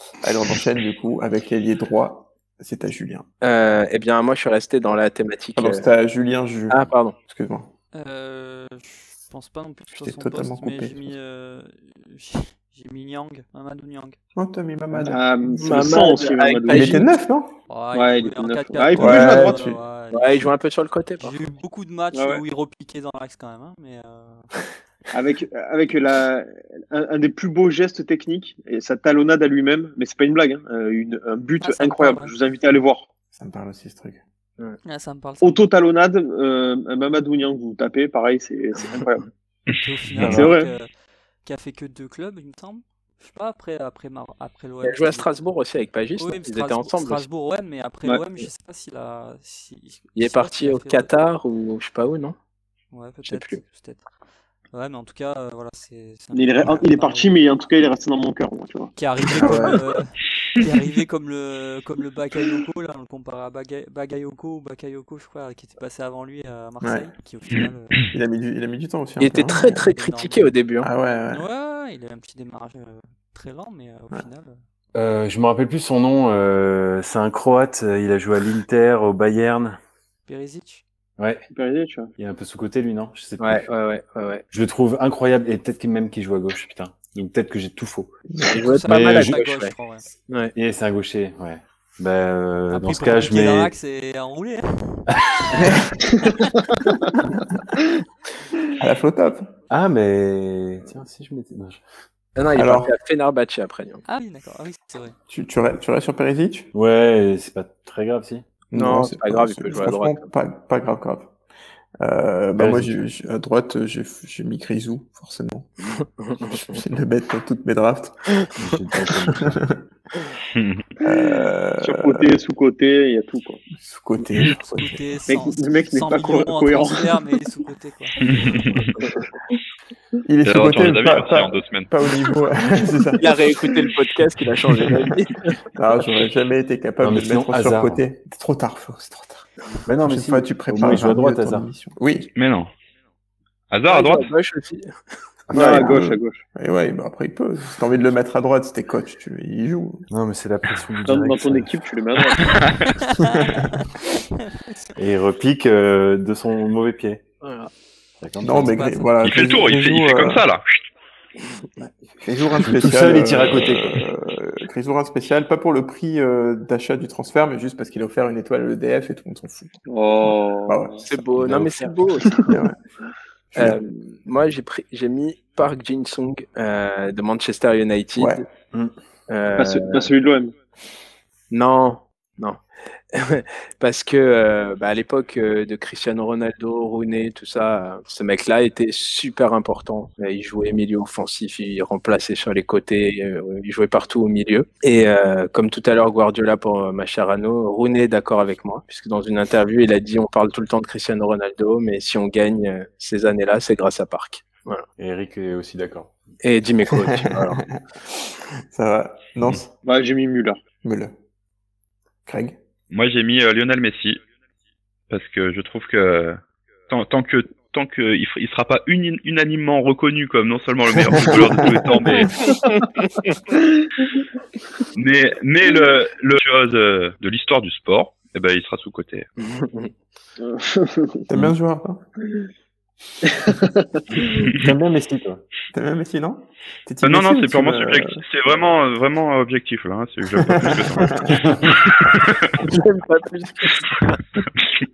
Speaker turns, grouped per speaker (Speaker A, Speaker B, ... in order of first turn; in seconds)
Speaker A: 0.2-3.3, 5.5-7.7, 9.9-11.1, 14.3-15.9, 16.7-17.6, 19.0-19.8, 33.3-34.2, 40.2-40.5, 59.3-59.8, 66.8-67.1, 68.1-69.9, 70.8-71.4, 88.3-88.6, 95.6-96.0, 97.3-97.6, 98.8-99.5, 102.5-102.9, 105.3-106.7, 108.7-111.3, 112.0-115.7, 116.5-118.4, 119.3-119.8, 121.0-122.3, 123.8-125.0, 130.2-133.6, 134.8-135.1, 135.7-139.5, 140.0-142.3, 145.5-150.1, 153.2-153.8, 158.4-160.4, 162.2-169.8, 170.7-171.0, 172.4-172.8, 173.5-173.8, 178.2-178.4, 206.9-209.7, 210.8-211.1, 212.3-212.6, 221.2-222.2, 231.3-232.0, 235.7-238.2, 240.4-241.5
Speaker B: 3.4-5.9, 6.7-7.2, 15.6-17.1, 20.1-21.3, 44.8-47.2, 50.1-52.4, 53.2-53.6, 69.2-70.9, 83.4-84.4, 88.5-89.7, 90.3-90.5, 102.3-104.0, 108.7-110.3, 116.3-116.8, 133.2-135.6, 143.9-144.9, 157.4-157.7, 171.0-172.5, 173.5-178.4, 179.3-180.1, 181.5-182.6, 183.1-204.8, 206.4-207.6, 223.0-223.3, 229.4-229.9, 242.6-244.2
Speaker C: 7.9-14.2, 17.7-20.5, 21.2-24.6, 31.6-32.3, 34.8-35.7, 39.8-40.9, 41.4-45.4, 46.1-51.1, 52.9-54.0, 54.7-57.4, 59.0-68.1, 69.6-70.5, 71.3-74.6, 80.3-80.8, 88.5-90.1, 92.7-95.7, 96.2-96.6, 104.0-105.1, 124.5-128.2, 152.8-154.7, 158.6-159.2
Speaker D: 15.0-17.0, 17.9-19.7, 22.1-22.4, 25.1-33.1, 35.4-39.3, 40.2-40.7, 56.3-58.9, 81.5-82.1, 121.8-123.6, 125.3-127.2, 145.5-146.4, 151.1-152.7, 169.9-171.0, 179.5-180.5, 209.8-210.6, 223.5-224.0, 230.4-231.2, 233.2-234.3
Speaker E: 74.9-79.8, 81.2-81.5, 82.2-83.7, 84.5-88.2, 88.8-89.4, 90.5-93.7, 99.7-101.8, 106.7-108.5, 112.6-113.0, 118.6-119.6, 137.0-138.0, 139.8-141.7, 150.1-151.7, 154.9-157.2, 158.2-158.8, 162.6-164.0, 205.0-206.1, 234.5-235.4, 241.3-241.8
Speaker F: 120.5-120.9, 128.2-128.9, 130.4-131.9, 142.3-142.7, 143.7-144.3, 159.2-160.8, 212.9-214.2, 215.1-222.4, 224.9-229.3, 237.0-242.6